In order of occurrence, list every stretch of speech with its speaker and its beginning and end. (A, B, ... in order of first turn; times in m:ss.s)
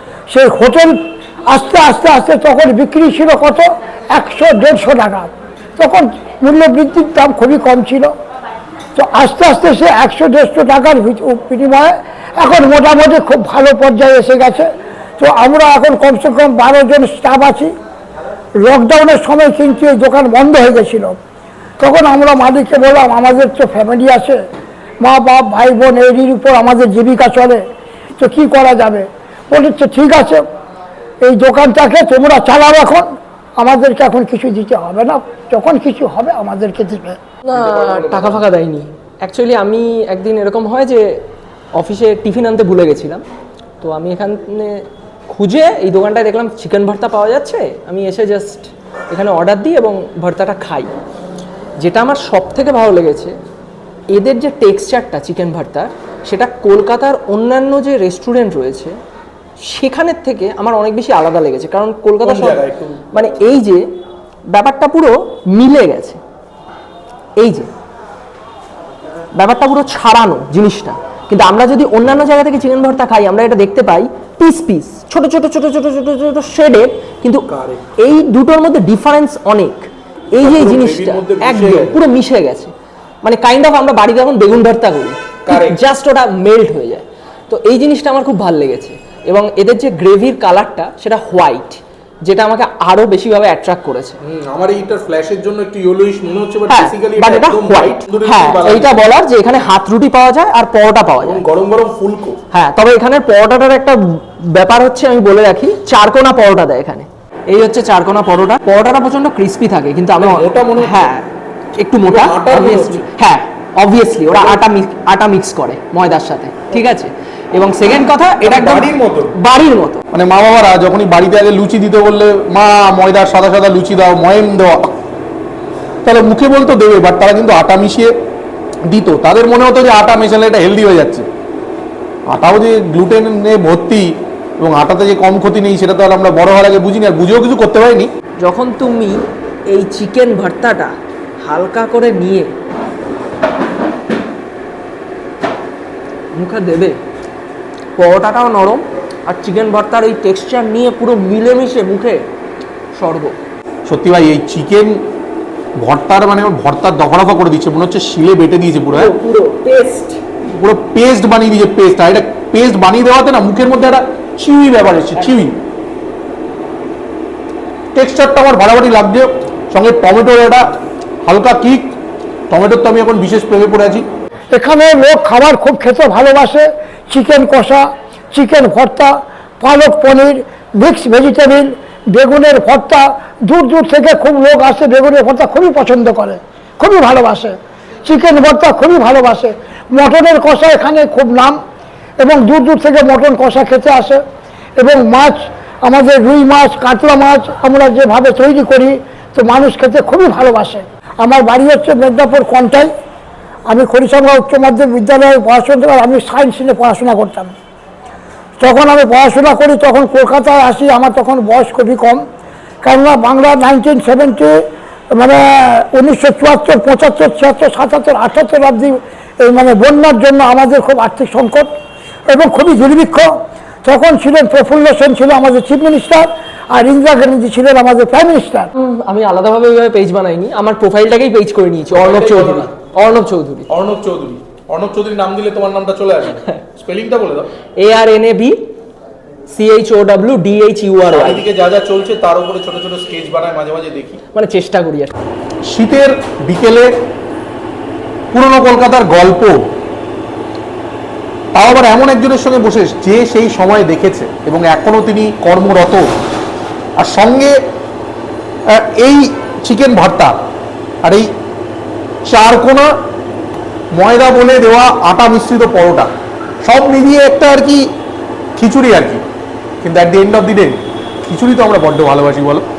0:00.3-0:08.1 A
0:09.0-0:17.7 A
0:18.6-0:21.2 A
0:21.8-0:24.4 A
0:25.0-0:27.6 A
0:28.2-0:30.4 A
0:31.2-0:37.2 A
0:37.5-0:43.2 B
0:37.5-0:38.4 C
0:43.8-0:50.9 B
0:51.8-0:53.4 B
0:54.1-0:59.0 B
0:59.6-1:03.8 B
1:02.2-1:03.3 C
1:04.5-1:06.2 B
1:07.4-1:07.7 B
1:09.3-1:17.5 B
1:17.5-1:18.0 C
1:18.0-1:22.7 B
1:20.4-1:22.0 C
1:23.2-1:34.2 B
1:25.4-1:25.8 C
1:34.2-1:39.0 C
1:36.7-1:41.4 B
1:41.2-1:42.4 C
1:42.5-1:51.3 B
1:50.2-1:51.1 C
1:51.8-2:00.0 B
1:52.1-1:53.1 C
1:54.3-1:54.6 C
1:58.4-1:59.4 C
2:00.1-2:04.9 C
2:06.0-2:08.1 C
2:08.9-2:11.3 C
2:12.3-2:18.1 C
2:18.4-2:22.5 B
2:26.3-2:27.0 B
2:28.0-2:32.3 B
2:32.9-2:33.4 B
2:33.8-2:35.0 C
2:35.8-2:39.1 C
2:38.8-2:40.2 B
2:40.6-2:45.6 C
2:45.2-2:45.5 B
2:48.0-2:52.0 C
2:52.5-2:54.1 C
2:54.5-3:11.6 A
3:12.2-3:14.2 A
3:14.8-3:22.9 A
3:23.7-3:27.5 A
3:28.6-3:32.2 A
3:32.8-3:34.6 A
3:35.1-3:41.7 A
3:42.3-3:48.7 A
3:48.8-3:53.7 B
3:51.9-3:52.7 C
3:53.7-3:57.5 C
3:57.8-3:58.6 B
3:59.5-4:01.5 B
4:01.1-4:04.2 C
4:04.3-4:05.1 B
4:05.7-4:06.9 C
4:08.3-4:09.6 C
4:11.6-4:16.0 C
4:17.0-4:17.6 C
4:18.7-4:20.4 C
4:21.0-4:21.3 C
4:22.3-4:22.9 C
4:23.9-4:26.1 C
4:26.6-4:27.9 C
4:28.6-4:29.2 C
4:29.8-4:30.8 C
4:31.3-4:32.6 C